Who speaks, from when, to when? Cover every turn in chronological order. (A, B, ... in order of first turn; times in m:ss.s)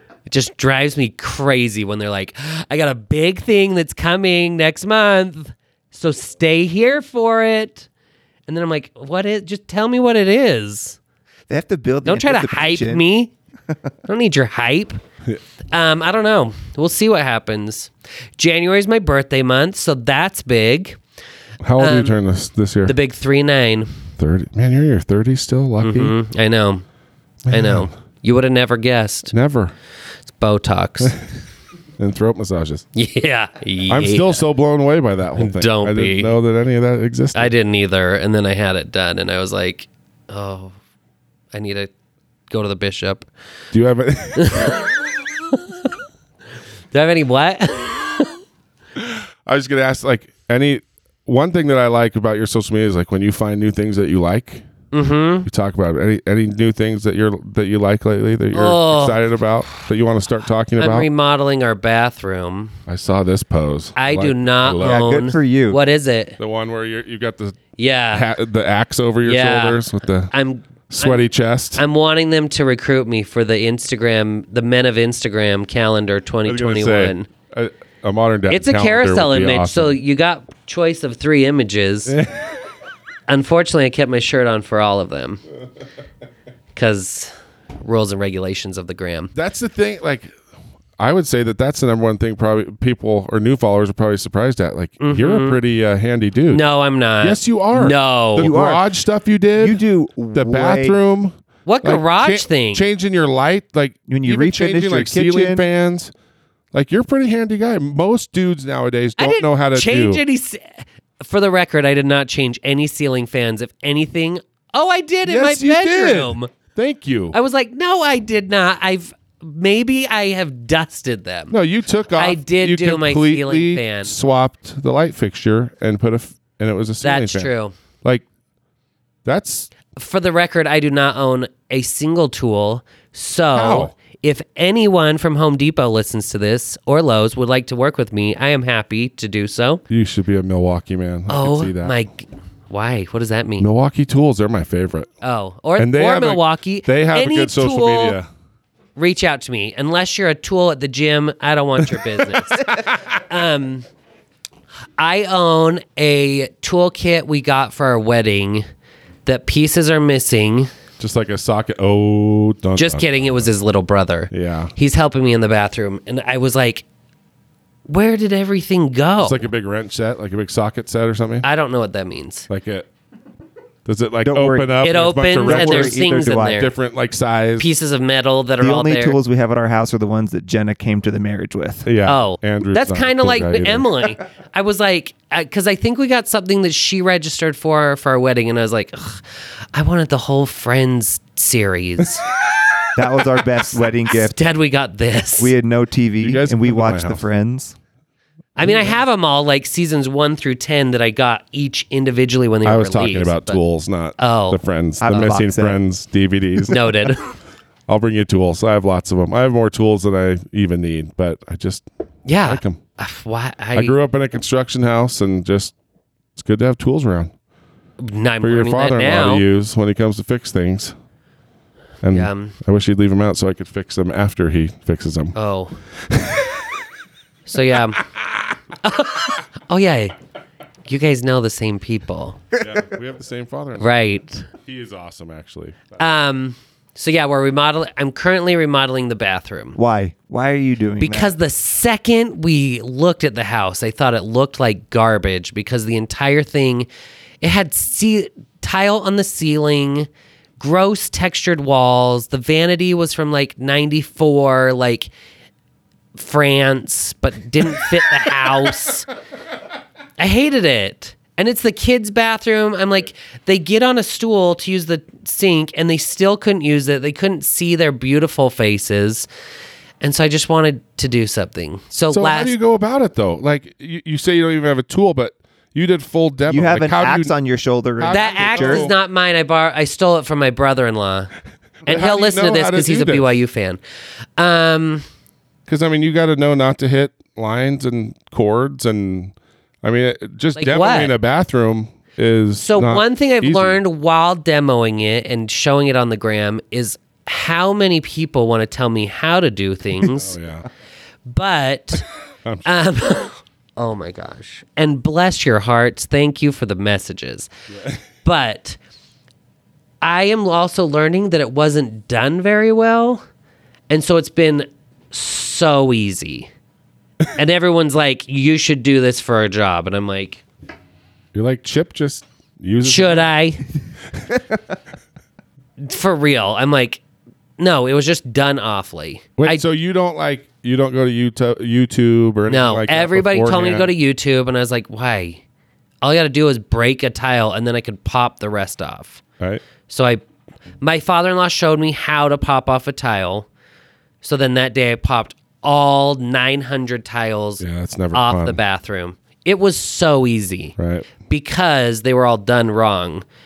0:00.3-0:07.9 A
0:08.5-0:11.0 A
0:11.5-0:13.0 B
0:12.0-0:13.3 A
0:14.1-0:15.0 A
0:15.7-0:21.0 A
0:21.6-0:23.0 C
0:21.8-0:22.2 A
0:22.9-0:23.9 A
0:24.2-0:26.2 C
0:25.8-0:26.8 A
0:27.5-0:27.9 C
0:27.5-0:29.3 A
0:29.3-0:29.7 C
0:30.3-0:31.2 A
0:32.0-0:32.9 C
0:33.0-0:34.4 A
0:33.9-0:37.5 C
0:35.4-0:36.3 A
0:37.4-0:40.8 A
0:41.5-0:41.9 A
0:42.5-0:43.3 A
0:43.7-0:44.9 C
0:44.4-0:44.8 A
0:45.5-0:45.9 A
0:46.9-0:48.4 A
0:49.0-0:54.6 C
0:54.9-0:55.5 A
0:55.5-1:01.1 C
0:58.5-0:59.8 A
1:00.8-1:02.8 A
1:02.9-1:05.1 C
1:04.0-1:06.4 A
1:04.8-1:05.8 B
1:06.4-1:10.3 C
1:07.8-1:08.3 A
1:09.2-1:17.3 A
1:10.9-1:11.8 C
1:16.4-1:20.0 C
1:18.5-1:22.2 A
1:22.1-1:22.5 C
1:23.3-1:25.4 A
1:26.8-1:29.3 A
1:29.3-1:30.3 C
1:31.0-1:36.6 C
1:35.0-1:35.6 A
1:36.5-1:38.6 A
1:37.2-1:39.8 C
1:38.4-1:38.9 B
1:39.6-1:41.0 B
1:40.3-1:46.1 C
1:41.7-1:42.8 A
1:44.1-1:45.6 B
1:46.7-1:50.2 C
1:49.2-1:56.5 A
1:55.3-1:57.4 C
1:57.3-2:01.6 A
2:01.5-2:08.2 C
2:02.2-2:04.2 A
2:07.0-2:07.7 A
2:09.2-2:09.7 C
2:10.0-2:19.8 A
2:13.5-2:13.9 C
2:19.9-2:21.9 C
2:21.3-2:23.7 A
2:23.6-2:25.1 C
2:25.2-2:28.2 A
2:25.8-2:28.3 C
2:29.0-2:33.9 A
2:32.3-2:33.0 C
2:35.0-2:38.6 A
2:39.3-2:40.7 A
2:41.0-2:43.4 C
2:42.8-2:46.8 A
2:44.3-2:44.7 C
2:47.9-2:49.5 A
2:49.2-2:51.5 C
2:51.4-2:52.5 A
2:52.5-2:52.9 C
2:53.9-2:57.7 C
2:54.2-2:54.8 B
2:54.8-2:56.7 A
2:55.4-2:56.6 B
2:57.6-2:59.2 A
2:58.6-3:01.9 B
3:01.9-3:03.9 C
3:02.0-3:12.2 A
3:13.0-3:14.4 B
3:14.1-3:15.5 A
3:15.4-3:17.8 B
3:16.2-3:17.2 C
3:18.6-3:23.6 A
3:22.6-3:27.1 C
3:24.2-3:24.6 A
3:25.0-3:25.8 B
3:26.7-3:27.4 A
3:27.9-3:31.8 C
3:32.3-3:34.0 A
3:32.4-3:32.8 C
3:33.8-3:35.7 C
3:36.4-3:37.3 C
3:38.0-3:39.5 A
3:38.4-3:40.9 C
3:42.0-3:45.4 C
3:42.1-3:42.6 A
3:45.4-3:45.8 A
3:46.1-3:46.7 C
3:47.5-3:48.0 A
3:48.8-3:50.2 A
3:50.9-3:52.4 A
3:52.6-3:53.9 C
3:53.8-3:54.5 A
3:54.6-3:56.0 C
3:56.0-3:59.8 A
3:59.8-4:01.4 B
4:01.0-4:06.9 A
4:07.4-4:15.1 A
4:16.2-4:19.1 A
4:20.2-4:29.3 A
4:30.0-4:32.5 A
4:32.1-4:37.3 C
4:36.5-4:38.9 B
4:38.0-4:39.0 C
4:38.1-4:41.3 A
4:41.9-4:43.8 A
4:41.9-4:43.3 C
4:44.4-4:45.0 A
4:45.7-4:53.8 C
4:50.6-4:51.1 A
4:52.6-5:00.4 A
5:00.0-5:00.7 C
5:01.3-5:02.1 A
5:02.6-5:07.5 A
5:08.2-5:08.8 A
5:10.0-5:13.2 A
5:13.9-5:16.5 A
5:17.4-5:20.4 A
5:21.3-5:23.3 C
5:22.8-5:23.6 A
5:25.8-5:27.0 A
5:27.6-5:29.6 A
5:29.4-5:33.9 C
5:32.5-5:35.4 A
5:36.0-5:39.2 A
5:39.9-5:40.2 A
5:40.8-5:43.5 A
5:44.2-5:50.8 A
5:47.6-5:48.6 C
5:50.8-5:51.1 C
5:51.3-5:53.2 A